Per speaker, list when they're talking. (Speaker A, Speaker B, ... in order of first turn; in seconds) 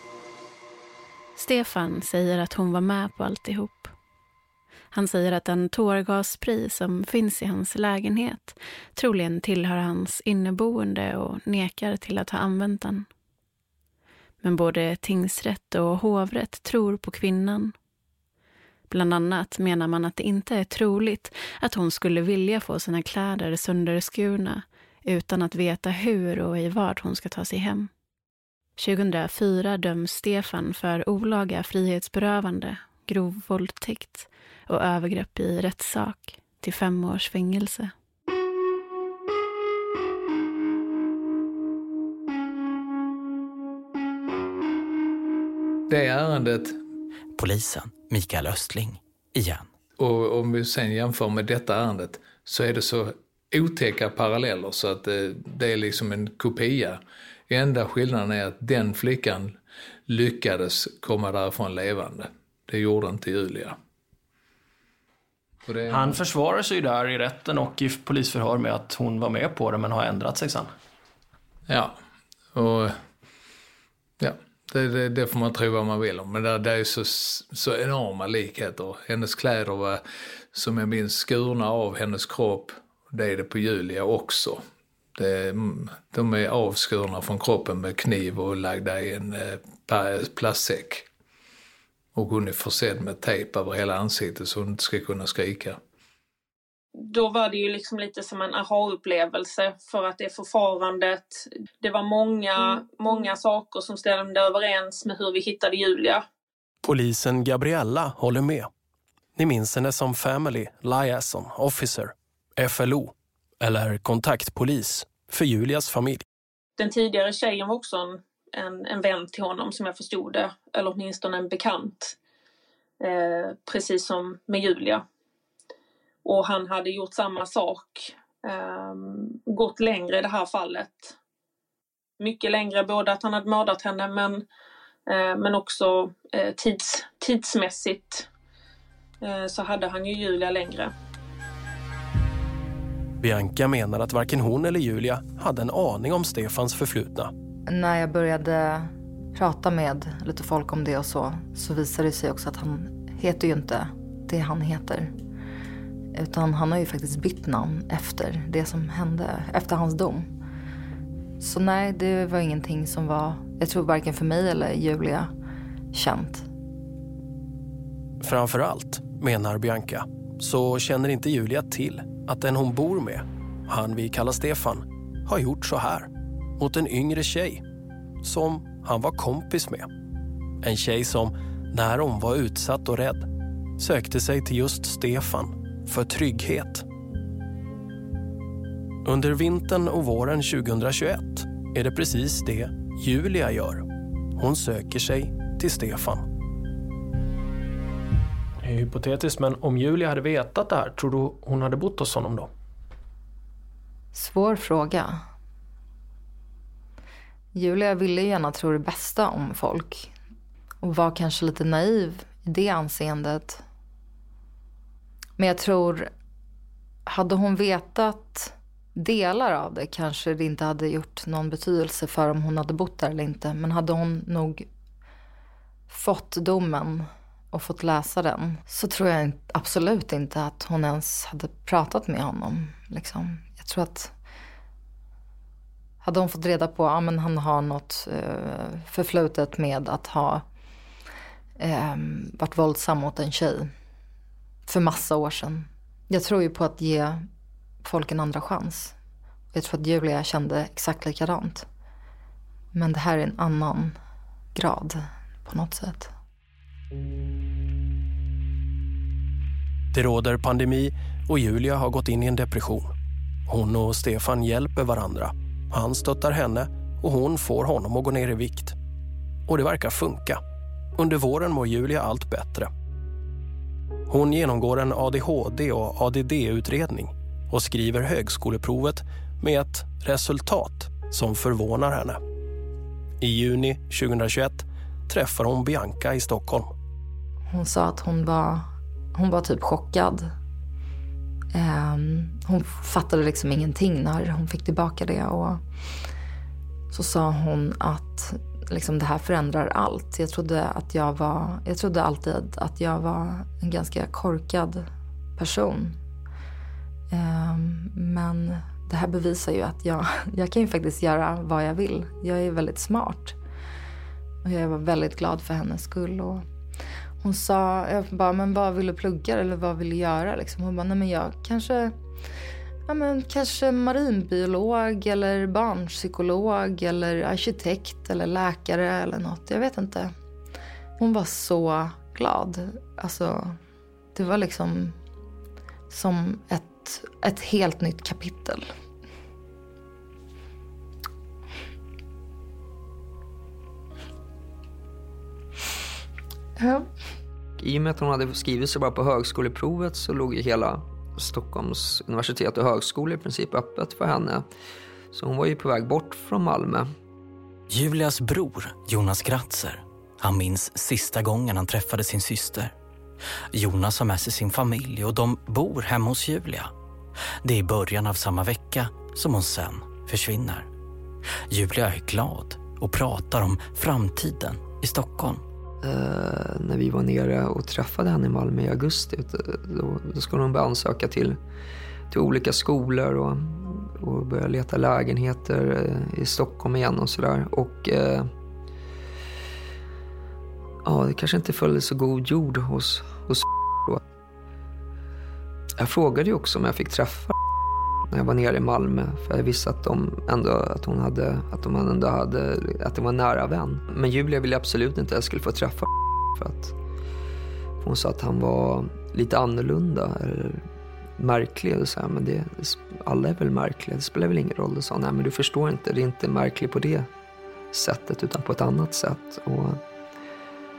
Speaker A: 1.4-3.9, 4.9-13.1, 14.4-17.8, 18.9-27.9, 28.8-37.9
Speaker B: 45.9-46.8, 50.0-59.6, 60.1-63.8, 65.7-66.2, 71.7-72.0, 72.5-73.0, 74.2-80.0, 80.5-84.6, 85.2-91.1, 92.2-95.8
Speaker C: 47.4-49.7, 357.7-362.7, 363.5-366.7, 367.4-370.7, 371.5-375.4
Speaker D: 65.9-70.7, 106.8-108.7, 109.4-116.2, 143.2-147.3, 168.2-177.6, 178.2-179.9, 180.6-186.9, 189.1-196.3, 198.6-202.5, 259.9-262.9, 263.5-268.8, 269.5-270.4, 271.0-272.7, 274.1-282.2, 283.2-286.7
Speaker E: 97.0-106.2, 116.8-122.2, 123.0-125.0, 126.2-131.2, 132.2-134.4, 135.1-138.3, 139.2-140.9
Speaker F: 147.7-155.1, 156.1-160.3, 161.4-165.3, 165.9-166.5, 204.1-205.2, 207.5-210.1, 210.8-213.6, 215.4-216.1, 217.1-224.7, 225.9-234.1, 236.0-240.4, 241.6-243.7, 244.7-247.3, 247.8-248.9, 249.5-251.7, 252.7-254.0, 254.6-256.1, 287.5-290.3, 291.5-295.6, 296.9-306.0, 307.1-313.4, 314.4-316.4, 317.2-321.9, 322.9-330.1, 331.0-333.6, 334.1-335.0, 335.9-338.7, 346.6-346.9
Speaker G: 347.6-354.5, 355.1-356.9, 375.8-381.4, 382.1-388.3, 390.9-394.0, 395.8-397.4, 398.1-406.7, 407.8-410.6, 411.2-417.1, 417.7-419.8